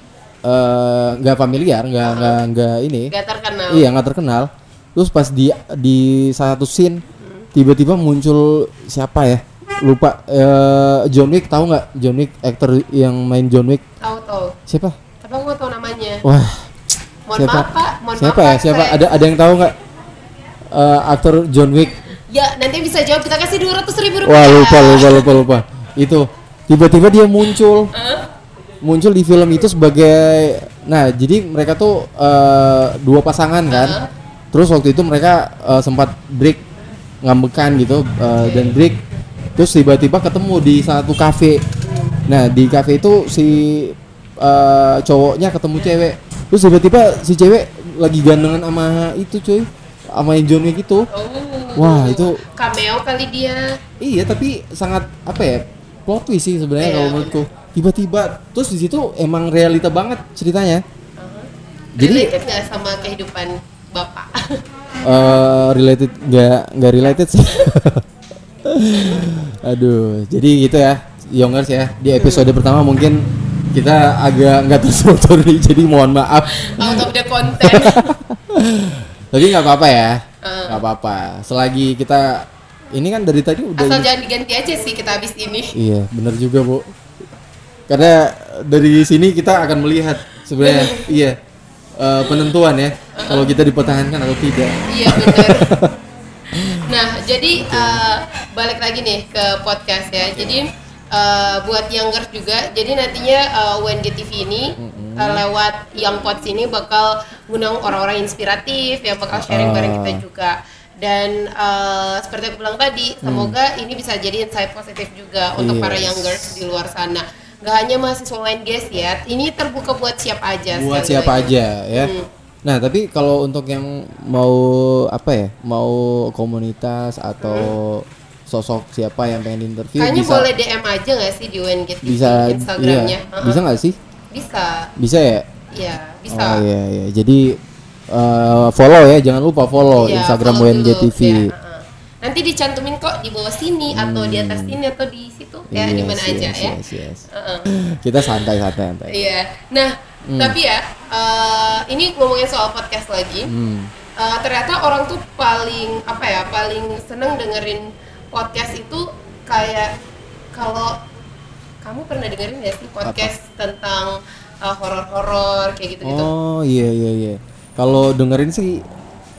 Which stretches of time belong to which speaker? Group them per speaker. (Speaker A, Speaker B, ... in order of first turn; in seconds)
Speaker A: 0.4-3.1, 3.7-7.0, 7.5-13.8, 14.7-15.0, 16.2-16.7, 17.4-19.8, 20.7-22.0, 24.2-27.9, 28.8-34.0, 34.5-36.6, 37.2-39.0, 39.6-41.6, 42.3-51.1, 51.8-52.4, 54.0-60.8, 62.0-62.3, 65.0-68.0, 68.7-84.1, 85.8-86.9, 87.9-91.4, 92.0-95.9, 96.5-96.9, 97.6-98.0, 100.3-100.6, 104.8-105.4, 109.3-110.2, 113.2-113.6, 115.6-116.6, 120.7-122.1, 122.7-130.5, 132.0-134.0, 135.0-135.5, 136.3-141.5, 143.9-144.8, 145.7-149.3, 150.3-150.6, 153.5-153.9, 163.0-163.3, 166.0-168.8
Speaker B: 2.0-2.4, 3.1-3.9, 7.2-7.5, 14.0-14.6, 15.2-16.2, 17.3-19.0, 22.3-25.4, 27.9-28.3, 33.7-34.1, 38.4-38.8, 41.8-42.2, 51.1-53.8, 56.8-57.4, 61.2-64.6, 72.2-72.5, 76.5-78.2, 80.4-80.8, 83.8-85.8, 90.6-91.1, 93.2-93.6, 94.9-95.7, 96.9-122.3, 127.4-127.7, 130.0-133.6, 134.3-134.9, 135.7-136.7, 139.9-146.8, 147.3-147.7, 149.1-153.5, 154.2-159.9, 160.5-161.0, 161.8-166.3